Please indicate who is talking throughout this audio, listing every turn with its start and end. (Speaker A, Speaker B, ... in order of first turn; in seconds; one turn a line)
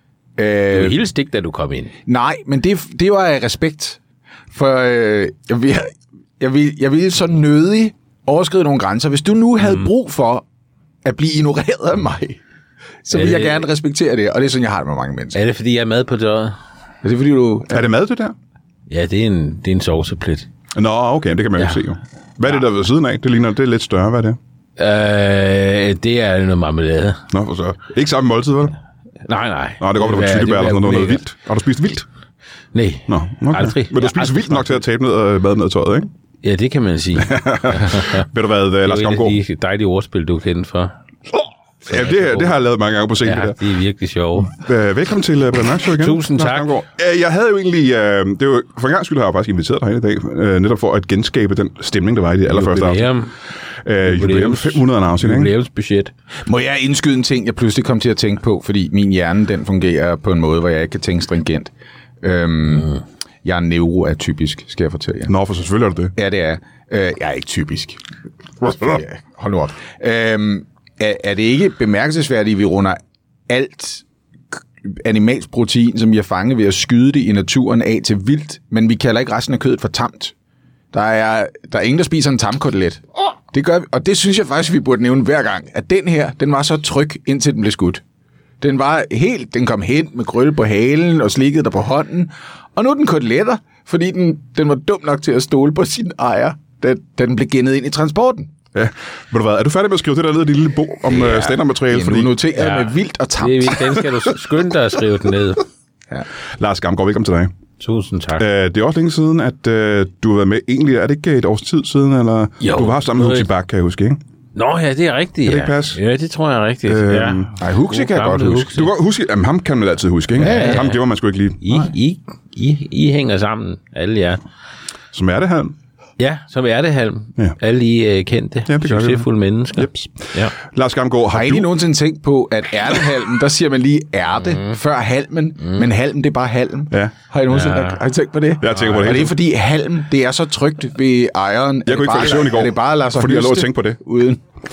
Speaker A: 0.4-1.0
Speaker B: 0.7-1.9
Speaker A: 2.0-4.0
Speaker A: 4.5-10.4
Speaker A: 11.0-12.4
Speaker A: 13.0-15.4
Speaker B: 13.1-13.6
Speaker B: 15.3-16.6
Speaker A: 17.0-17.8
Speaker C: 17.7-18.3
Speaker B: 18.9-20.5
Speaker C: 20.7-24.4
Speaker B: 24.8-27.2
Speaker C: 27.3-28.8
Speaker B: 29.2-31.2
Speaker C: 29.8-32.0
Speaker B: 32.7-34.8
Speaker C: 33.1-36.1
Speaker B: 36.4-38.2
Speaker C: 37.2-39.4
Speaker B: 38.8-40.9
Speaker C: 41.9-43.6
Speaker B: 41.9-42.5
Speaker B: 43.2-44.5
Speaker C: 44.4-53.1
Speaker B: 45.9-46.7
Speaker B: 52.5-53.3
Speaker C: 53.8-55.5
Speaker B: 54.0-56.1
Speaker A: 56.5-61.7
Speaker A: 62.2-65.3
Speaker C: 65.3-66.1
Speaker A: 66.1-68.0
Speaker A: 68.6-74.0
Speaker A: 74.8-80.3
Speaker A: 80.9-88.0
Speaker A: 88.6-98.5
Speaker C: 98.7-102.3
Speaker A: 101.1-104.0
Speaker B: 102.5-105.7
Speaker C: 106.6-107.5
Speaker B: 107.8-108.4
Speaker C: 108.4-114.2
Speaker B: 112.6-113.5
Speaker B: 114.5-118.9
Speaker C: 115.4-116.0
Speaker C: 116.8-117.5
Speaker A: 117.6-118.8
Speaker C: 118.7-121.7
Speaker B: 120.4-121.0
Speaker A: 120.4-120.9
Speaker B: 121.6-124.4
Speaker C: 125.1-125.7
Speaker B: 126.2-130.5
Speaker C: 128.7-131.7
Speaker A: 131.3-144.4
Speaker B: 137.5-138.0
Speaker C: 138.6-139.4
Speaker C: 141.8-144.0